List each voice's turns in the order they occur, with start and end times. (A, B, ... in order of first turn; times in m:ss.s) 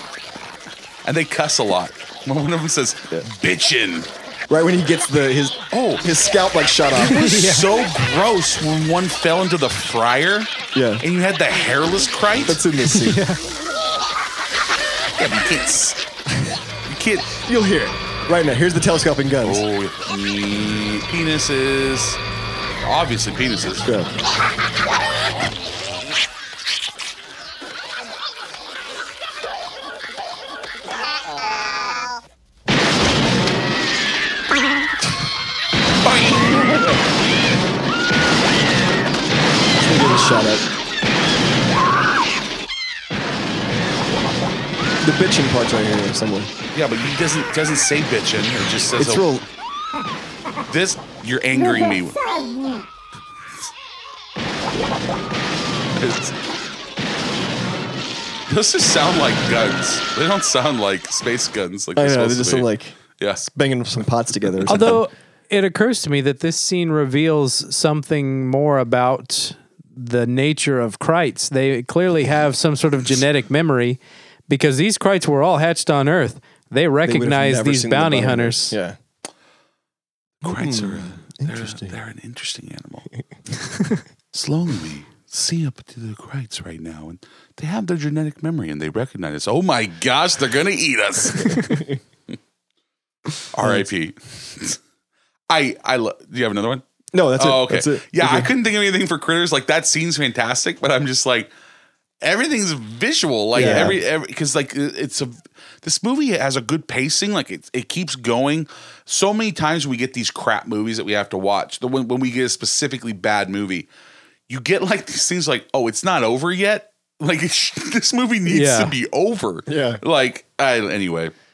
0:01.0-0:04.1 A
0:04.5-0:07.3 B
0:05.7-0:06.0 A
0:07.0-0:12.6 A
0:07.2-0:07.7 C
0:10.7-0:11.0 B
0:12.4-0:13.2 B
0:12.9-0:13.4 C
0:15.2-0:16.0 A
0:16.9-0:17.4 A
0:17.5-0:19.6 B
0:19.4-0:22.2 A
0:22.8-0:23.9 A
0:23.8-0:24.1 B
0:36.0-0:36.8 A
0:39.8-0:40.7 B
0:45.0-0:46.5 B
0:46.7-0:49.3 A
0:49.0-0:49.4 B
0:50.7-0:52.2 A
0:56.0-0:56.3 A
0:58.5-1:03.5 A
1:02.0-1:05.0 B
1:04.7-1:18.8 C
1:17.0-1:19.0 B
1:20.4-1:23.1 A
1:20.4-1:21.9 B
1:24.3-1:31.6 A
1:31.4-1:32.0 B
1:33.5-1:34.8 A
1:35.5-1:36.8 A
1:37.1-1:38.5 B
1:37.4-1:41.5 A
1:42.2-1:53.9 A
1:43.5-1:44.0 B
1:54.5-2:01.3 A
1:58.5-1:58.9 C
1:59.7-2:00.0 B